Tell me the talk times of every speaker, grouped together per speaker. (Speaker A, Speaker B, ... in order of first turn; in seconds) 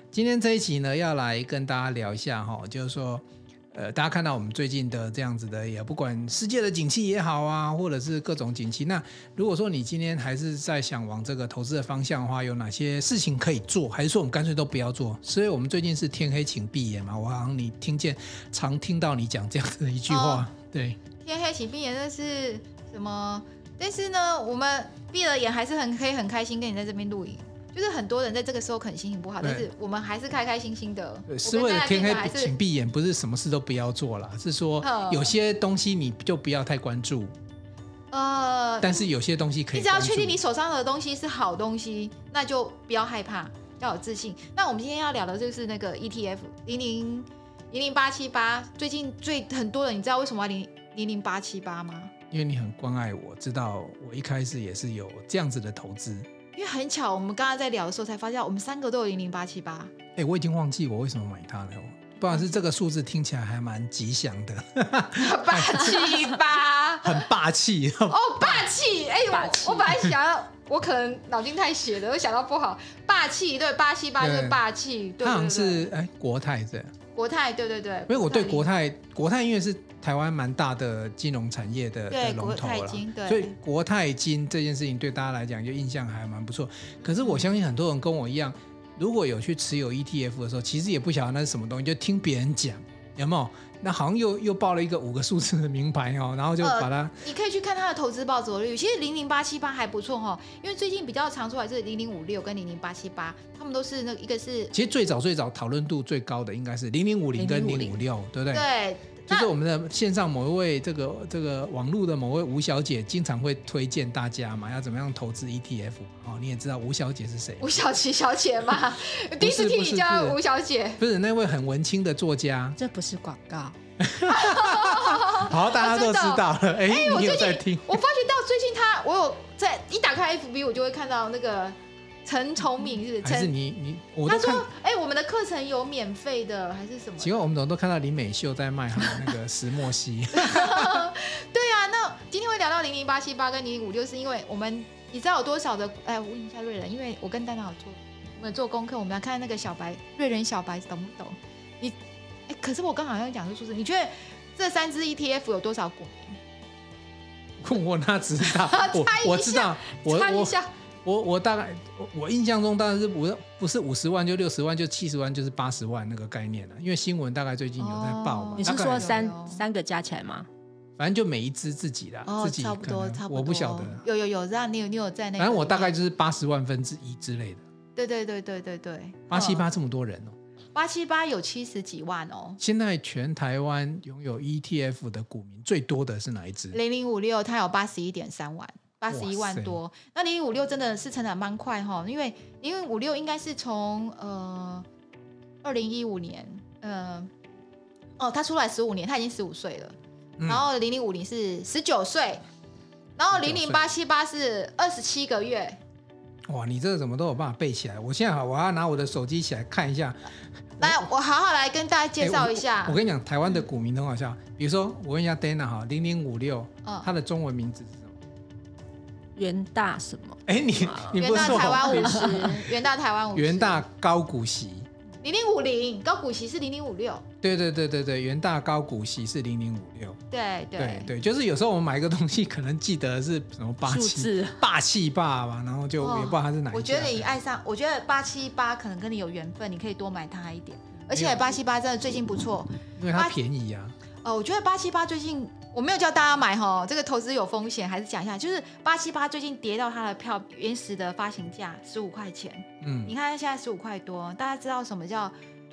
Speaker A: 0.1-21.0, 29.4-29.7, 31.3-37.3, 38.8-40.4, 52.3-56.3, 60.2-68.7, 74.2-74.6, 75.2-76.9, 78.1-97.2, 104.7-108.7, 109.2-117.8, 119.4-120.4, 121.0-122.8, 124.0-128.0, 133.2-134.7, 137.2-141.1, 157.6-169.2, 171.0-174.0, 175.4-177.6, 179.3-180.3, 182.6-186.8, 189.1-189.8, 200.4-200.7, 203.3-203.9, 206.5-211.0, 212.2-218.2, 220.5-222.6, 223.3-224.9, 227.4-230.2, 230.8-237.3, 241.1-241.6, 243.0-244.0, 252.8-253.2
Speaker B: 20.1-20.5, 21.2-32.5, 34.8-35.3, 38.1-39.1, 39.7-52.1, 56.5-59.9, 65.2-67.3, 68.1-75.9, 77.1-78.7, 82.1-83.6, 87.0-87.5, 96.6-104.7, 108.5-109.5, 117.6-121.0, 124.3-133.5, 134.2-137.3, 140.3-152.0, 152.5-156.4, 158.4-160.7, 167.8-169.6, 172.2-176.0, 178.0-179.6, 180.8-182.6, 186.7-194.8, 195.6-197.3, 198.2-200.0, 200.5-202.4, 203.2-205.8, 210.8-213.0, 216.8-217.1, 221.2-223.8, 225.2-227.2, 230.3-231.1, 236.0-243.4, 244.2-255.3
Speaker C: 69.3-70.0, 107.4-108.0, 122.8-123.8, 168.6-170.5, 219.3-222.5, 233.9-234.6